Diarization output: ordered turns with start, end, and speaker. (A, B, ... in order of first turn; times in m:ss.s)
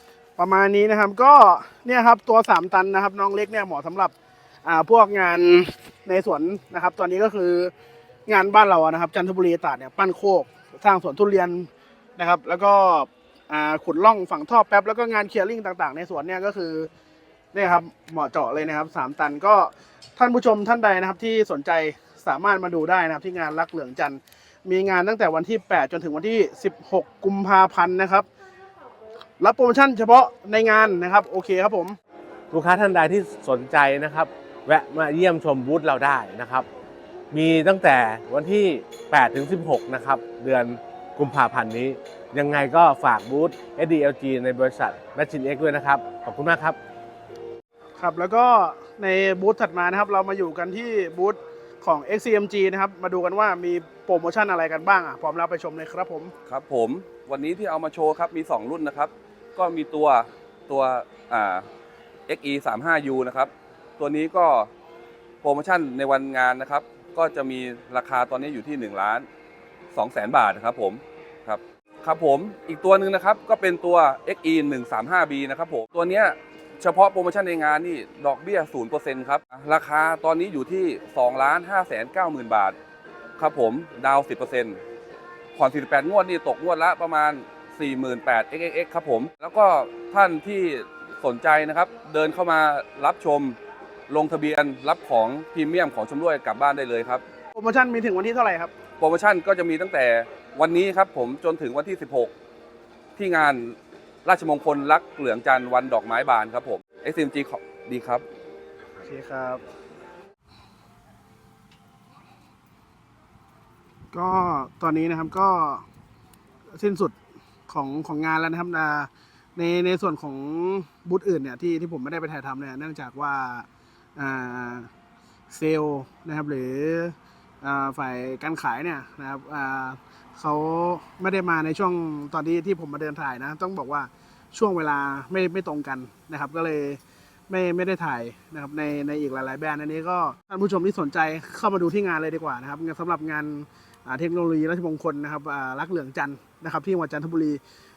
0:00.4-0:04.1 A
0:04.6-0:07.7 A
0:08.2-0:16.9 A
0:17.5-0:28.2 A
0:29.4-0:32.0 A
0:32.5-0:36.6 B
0:37.3-0:46.8 B
0:48.0-0:56.3 A
0:56.5-1:01.6 C
1:02.3-1:04.7 C
1:05.4-1:09.2 C
1:09.9-1:22.8 C
1:23.4-1:24.8 C
1:25.6-1:33.6 C
1:34.1-1:37.2 C
1:37.5-1:38.7 A
1:39.0-1:42.3 C
1:43.2-1:48.2 C
1:49.0-1:49.6 A
1:54.1-1:55.8 A
1:56.8-1:57.1 A
1:57.7-2:04.9 A
2:05.5-2:27.6 A